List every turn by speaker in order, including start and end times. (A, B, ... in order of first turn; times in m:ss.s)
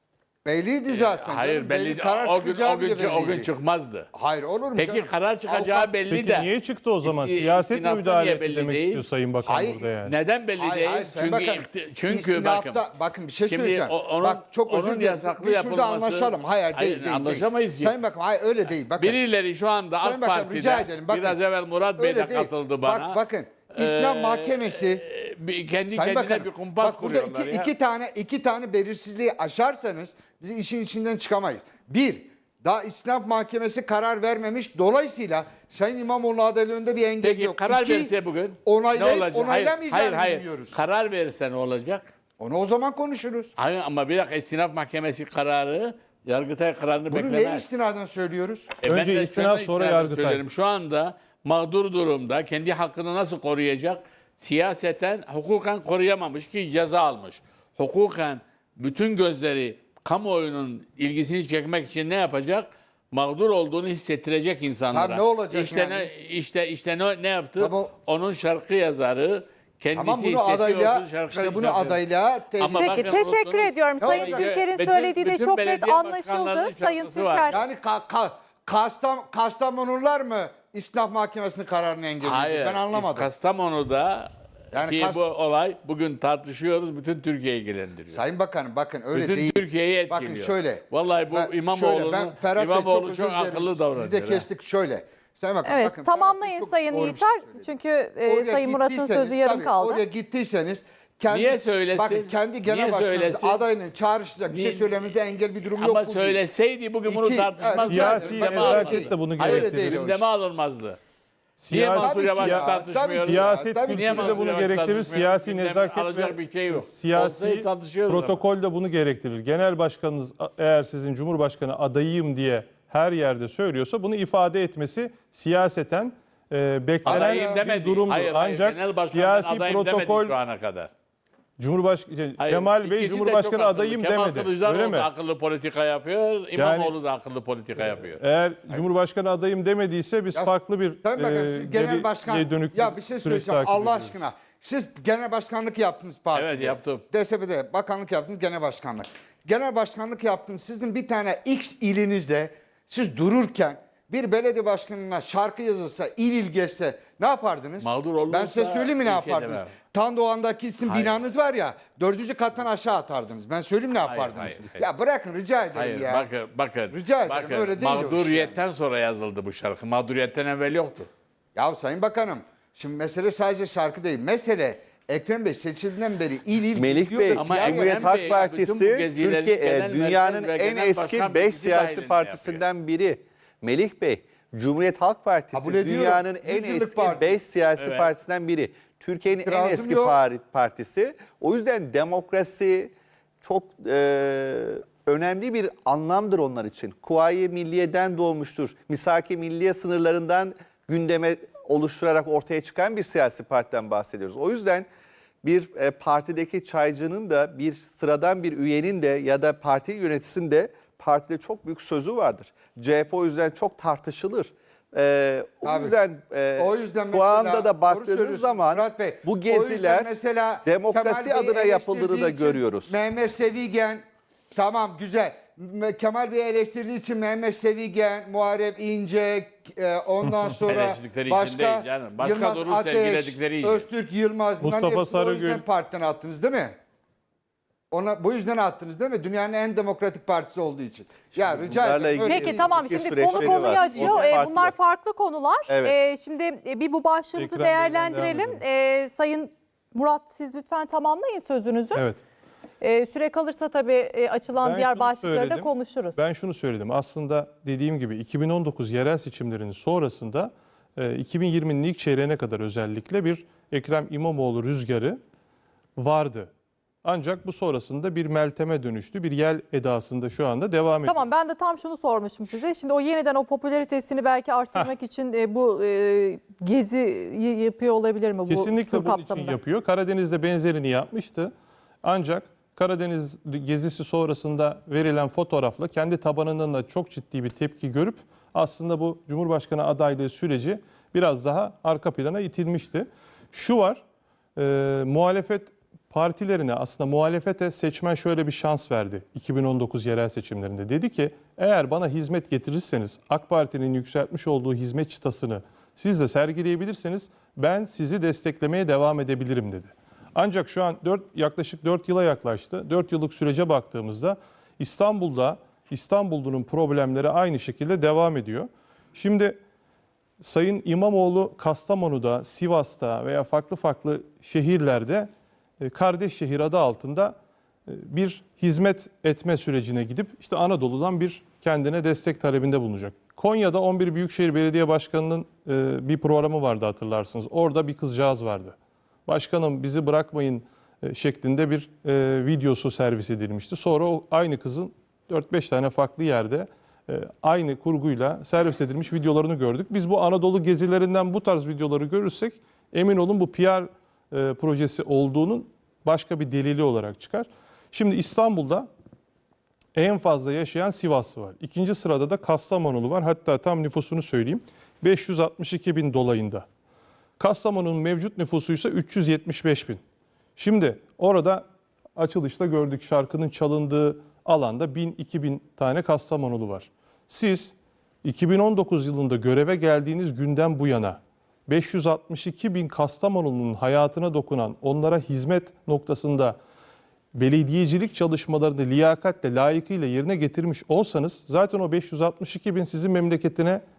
0:00.4-0:03.5 A
0:00.9-0:04.1 B
0:04.1-0:05.9 A
0:04.7-0:06.5 B
0:06.1-0:10.1 C
0:07.0-0:09.0 B
0:09.4-0:09.9 A
0:10.0-0:12.8 B
0:10.5-0:19.2 A
0:13.5-0:18.0 B
0:18.7-0:27.7 B
0:20.0-0:21.4 A
0:22.0-0:25.0 A
0:25.9-0:38.1 A
0:37.2-0:42.0 B
0:38.6-0:40.8 A
0:42.4-0:43.5 A
0:43.6-0:47.7 B
0:47.1-0:48.7 A
0:48.8-1:12.0 B
0:48.9-0:50.4 C
1:04.9-1:06.1 A
1:07.6-1:07.9 A
1:09.9-1:13.3 A
1:12.6-1:17.6 B
1:12.7-1:17.6 D
1:14.0-1:14.6 A
1:17.5-1:23.3 A
1:22.2-1:28.2 B
1:24.7-1:25.2 A
1:28.1-1:37.7 A
1:29.1-1:34.5 B
1:35.6-1:40.0 D
1:38.2-1:46.4 A
1:41.3-1:43.7 B
1:44.5-1:45.0 B
1:45.7-1:51.0 B
1:47.0-1:50.2 A
1:47.9-1:50.1 C
1:51.6-2:10.4 C
1:51.7-1:58.4 B
1:51.7-1:54.4 A
2:07.0-2:10.9 B
2:07.0-2:07.6 A
2:11.6-2:15.1 C
2:12.4-2:18.2 B
2:16.6-2:16.9 C
2:17.8-2:24.2 C
2:20.3-2:46.3 A
2:26.3-2:27.0 B
2:37.8-2:39.7 B
2:40.8-2:41.2 B
2:44.0-2:44.8 B
2:45.7-2:51.1 B
2:46.9-2:48.6 A
2:51.5-2:58.5 A
2:56.7-3:24.9 E
2:57.3-3:02.6 B
3:05.5-3:07.4 A
3:07.8-3:08.1 B
3:09.3-3:10.2 A
3:25.4-3:40.1 E
3:35.6-3:36.0 A
3:36.6-3:56.7 A
3:40.6-3:42.9 E
3:50.7-3:53.9 B
3:54.6-3:55.6 C
3:57.9-4:04.4 A
4:01.3-4:04.7 E
4:02.3-4:12.0 D
4:05.7-4:06.0 E
4:07.4-4:08.6 C
4:11.9-4:12.2 C
4:12.8-4:16.2 D
4:14.6-4:25.2 C
4:26.0-4:26.5 C
4:27.0-4:31.2 C
4:31.0-4:39.6 D
4:38.5-4:41.5 C
4:42.0-4:54.0 C
4:54.6-5:19.6 C
5:20.4-5:25.3 C
5:25.8-5:27.4 C
5:27.9-5:38.8 C
5:39.3-5:58.9 C
5:59.9-6:06.6 C
6:07.4-6:10.0 C
6:10.6-6:26.6 C
6:27.3-6:33.8 C